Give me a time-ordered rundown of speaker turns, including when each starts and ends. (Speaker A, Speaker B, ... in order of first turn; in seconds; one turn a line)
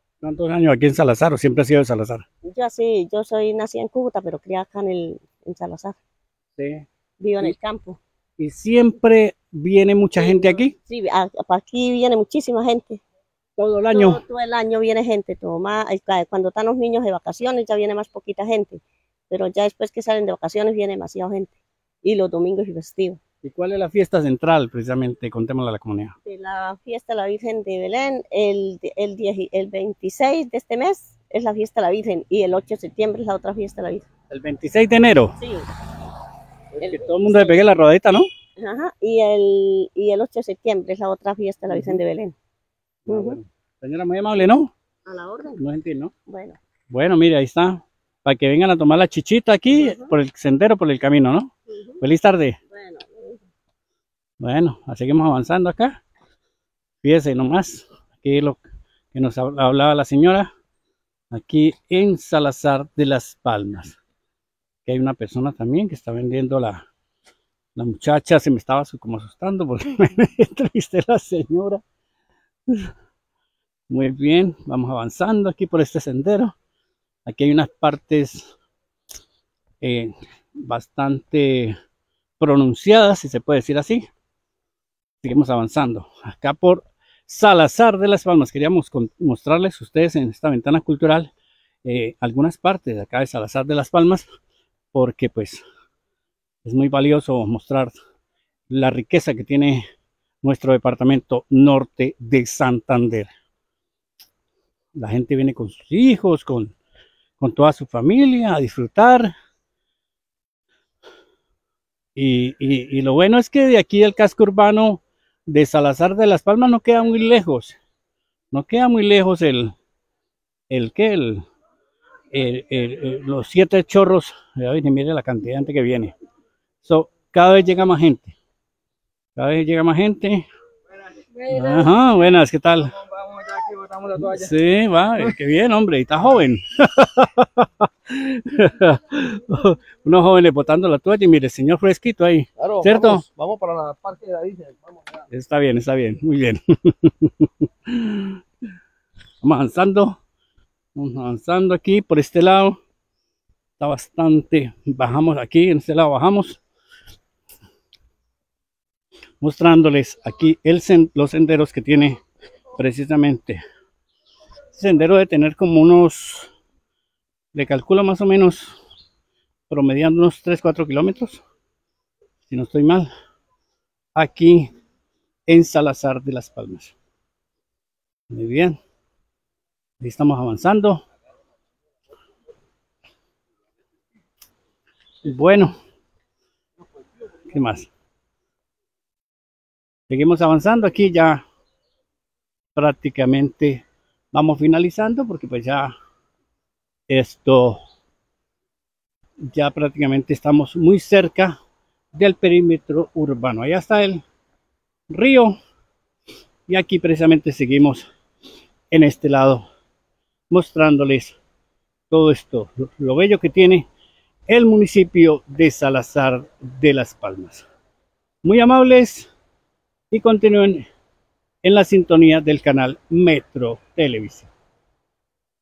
Speaker A: 0.2-2.2
Speaker B: 2.4-6.0
Speaker A: 6.6-6.8
Speaker B: 7.2-8.0
Speaker A: 8.4-10.7
Speaker B: 10.2-13.0
Speaker A: 13.6-14.2
Speaker B: 13.9-23.2
Speaker A: 23.4-26.1
Speaker B: 26.2-34.1
Speaker A: 34.3-35.4
Speaker B: 35.4-35.7
Speaker A: 36.8-38.3
Speaker B: 36.8-37.6
Speaker B: 38.6-42.3
Speaker A: 43.0-44.7
Speaker B: 43.1-43.4
Speaker B: 45.0-45.6
Speaker A: 45.6-46.1
Speaker B: 46.3-46.6
Speaker A: 46.9-52.6
Speaker B: 49.8-50.1
Speaker B: 51.7-52.0
Speaker B: 52.7-53.4
Speaker A: 54.4-56.0
Speaker A: 57.0-58.6
Speaker A: 59.1-60.5
Speaker A: 61.3-64.0
Speaker A: 64.8-66.8
Speaker A: 67.8-71.8
Speaker A: 73.9-76.5
Speaker A: 77.2-78.5
Speaker A: 79.8-81.8
Speaker A: 82.4-84.0
Speaker A: 85.2-91.3
Speaker A: 91.8-94.3
Speaker A: 94.9-95.6
Speaker A: 96.6-97.9
Speaker A: 98.7-99.8
Speaker A: 100.4-103.3
Speaker A: 105.0-106.7
Speaker A: 107.4-109.3
Speaker A: 112.2-117.8
Speaker A: 118.5-119.7
Speaker A: 120.7-121.4
Speaker A: 122.3-126.1
Speaker A: 126.8-128.3
Speaker A: 129.3-130.4
Speaker A: 131.4-133.0
Speaker C: 133.6-134.0
Speaker A: 134.1-143.2
Speaker C: 142.8-144.7
Speaker A: 145.3-148.4
Speaker A: 149.4-150.1
Speaker A: 150.9-152.8
Speaker A: 153.8-156.6
Speaker A: 159.4-162.2
Speaker A: 162.8-163.6
Speaker A: 164.7-166.5
Speaker A: 167.5-168.7
Speaker A: 169.7-171.4
Speaker A: 172.5-173.1
Speaker A: 174.1-174.7
Speaker A: 175.5-176.9
Speaker A: 178.3-178.8
Speaker A: 180.0-181.0
Speaker A: 185.2-185.7
Speaker A: 187.5-187.9
Speaker A: 190.1-191.4
Speaker A: 192.7-195.9
Speaker A: 197.1-197.8
Speaker A: 199.5-201.5
Speaker A: 202.1-204.2
Speaker A: 205.1-205.5
Speaker A: 206.7-208.1
Speaker A: 208.9-209.6
Speaker A: 210.5-211.4
Speaker A: 212.1-213.8
Speaker A: 214.5-217.7
Speaker A: 218.4-219.3
Speaker A: 220.1-220.8
Speaker A: 221.6-224.5